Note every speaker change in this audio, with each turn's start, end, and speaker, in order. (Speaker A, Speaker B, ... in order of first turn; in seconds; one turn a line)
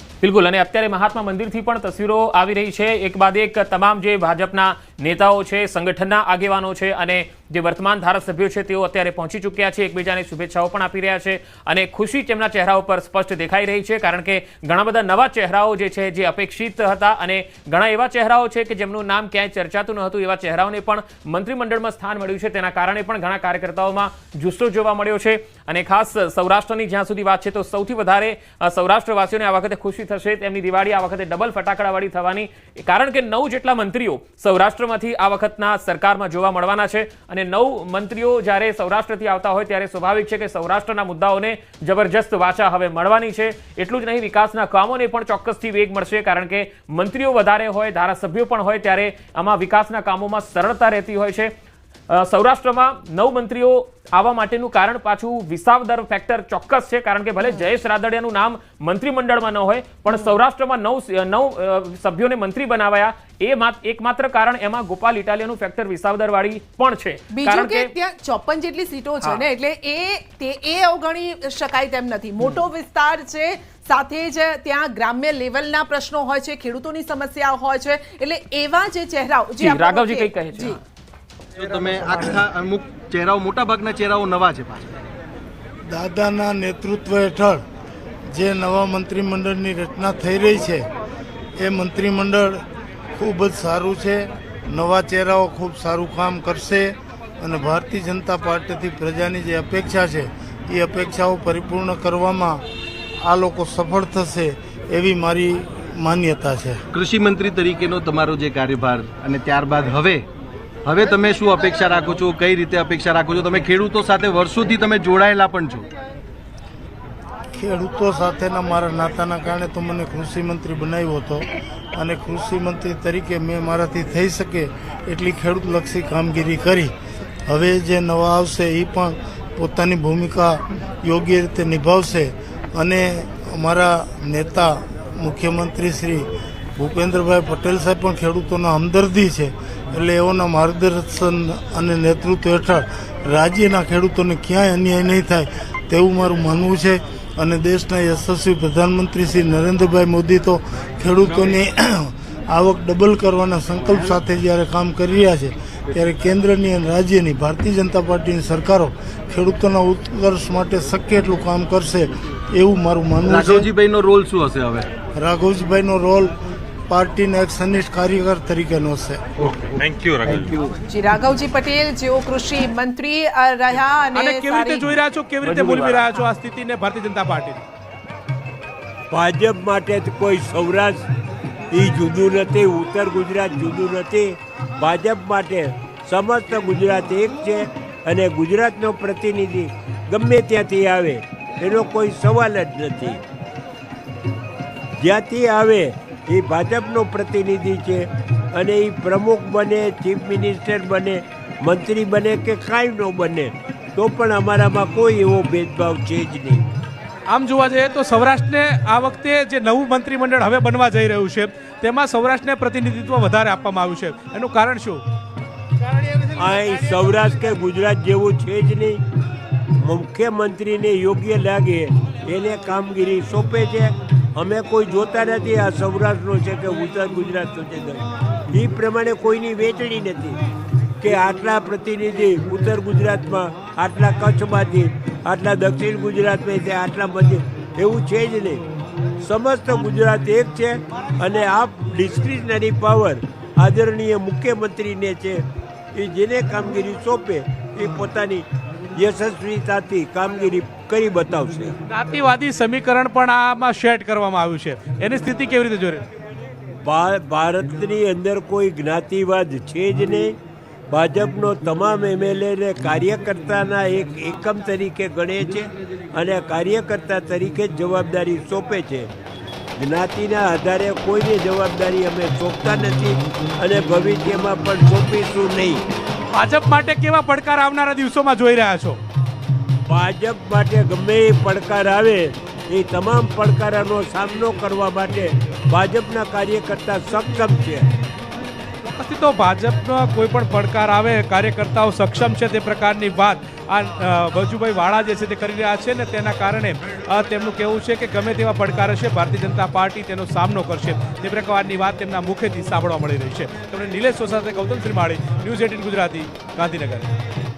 Speaker A: 0.2-51.5
Speaker A: 52.1-67.9
Speaker B: 67.3-80.8
Speaker A: 79.6-80.8
Speaker C: 81.6-84.9
Speaker D: 85.9-87.6
Speaker D: 88.3-90.9
Speaker D: 91.6-92.6
Speaker D: 93.2-102.6
Speaker D: 103.2-106.8
Speaker C: 106.9-110.3
Speaker C: 110.8-115.9
Speaker D: 117.5-126.9
Speaker D: 127.5-163.7
Speaker C: 163.2-164.9
Speaker D: 165.2-166.3
Speaker D: 166.9-169.2
Speaker B: 170.9-175.0
Speaker E: 174.2-177.6
Speaker F: 175.4-176.1
Speaker F: 179.1-181.1
Speaker F: 181.7-193.2
Speaker F: 195.0-206.7
Speaker E: 207.3-215.0
Speaker F: 216.3-219.0
Speaker F: 219.8-230.4
Speaker F: 231.0-238.7
Speaker F: 239.2-251.8
Speaker E: 251.9-256.1
Speaker F: 256.8-260.4
Speaker F: 260.9-269.1
Speaker F: 269.8-275.8
Speaker E: 276.3-279.0
Speaker F: 279.9-287.9
Speaker E: 288.9-307.1